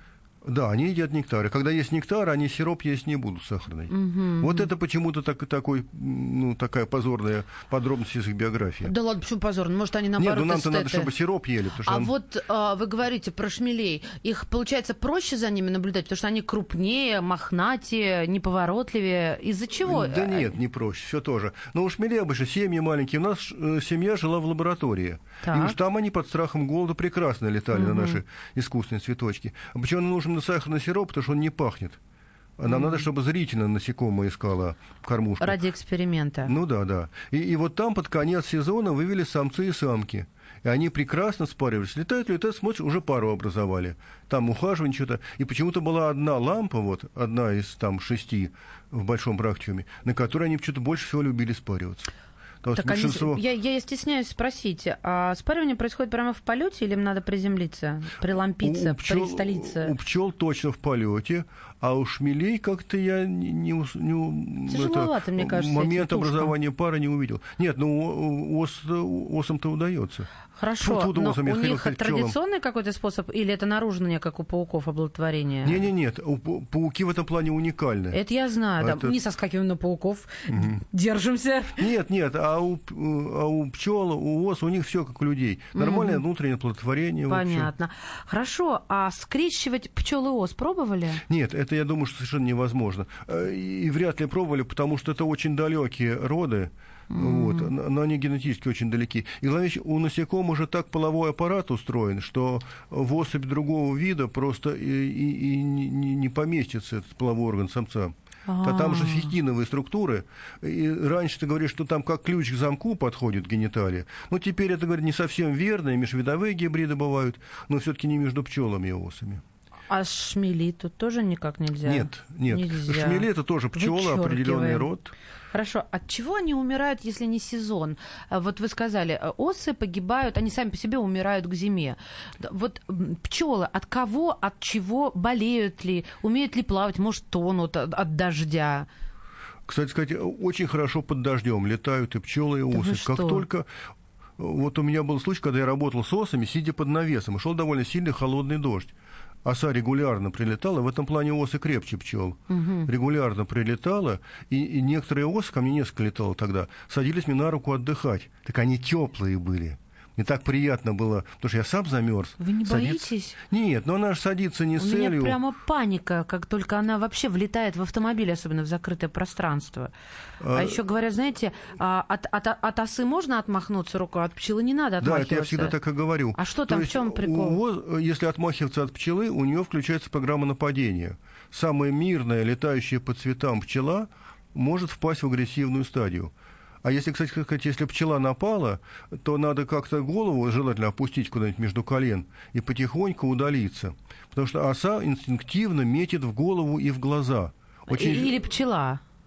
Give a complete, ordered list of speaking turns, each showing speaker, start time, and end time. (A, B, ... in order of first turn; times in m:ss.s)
0:00.4-0:08.9 A
0:03.9-0:04.7 B
0:08.8-0:11.1 B
0:10.2-0:12.1 A
0:11.8-0:20.6 B
0:19.8-0:32.0 A
0:25.4-0:25.8 B
0:27.7-0:28.2 B
0:32.6-0:35.6 A
0:32.6-0:33.1 B
0:35.4-0:36.5 B
0:36.4-0:52.1 A
0:52.6-0:53.4 A
0:52.8-0:59.9 B
0:58.6-1:10.3 A
1:04.7-1:06.5 B
1:10.6-1:15.9 B
1:10.8-1:12.4 A
1:15.6-1:18.2 A
1:18.1-1:21.8 B
1:18.8-1:19.1 A
1:20.5-1:20.8 A
1:21.8-1:27.7 A
1:25.8-1:26.2 B
1:27.3-1:31.2 B
1:31.3-1:59.4 A
1:37.1-1:37.7 B
1:48.5-1:49.4 B
1:59.9-2:04.9 B
2:01.8-2:05.1 A
2:05.5-2:18.9 B
2:19.7-2:23.7 A
2:22.7-2:23.5 B
2:24.4-2:28.9 A
2:29.4-2:45.4 A
2:32.5-2:32.9 B
2:42.4-2:43.4 B
2:44.8-2:49.9 B
2:50.4-2:50.8 A
2:50.6-2:55.8 B
2:55.0-3:18.4 A
2:56.4-2:57.6 B
3:17.9-3:19.0 B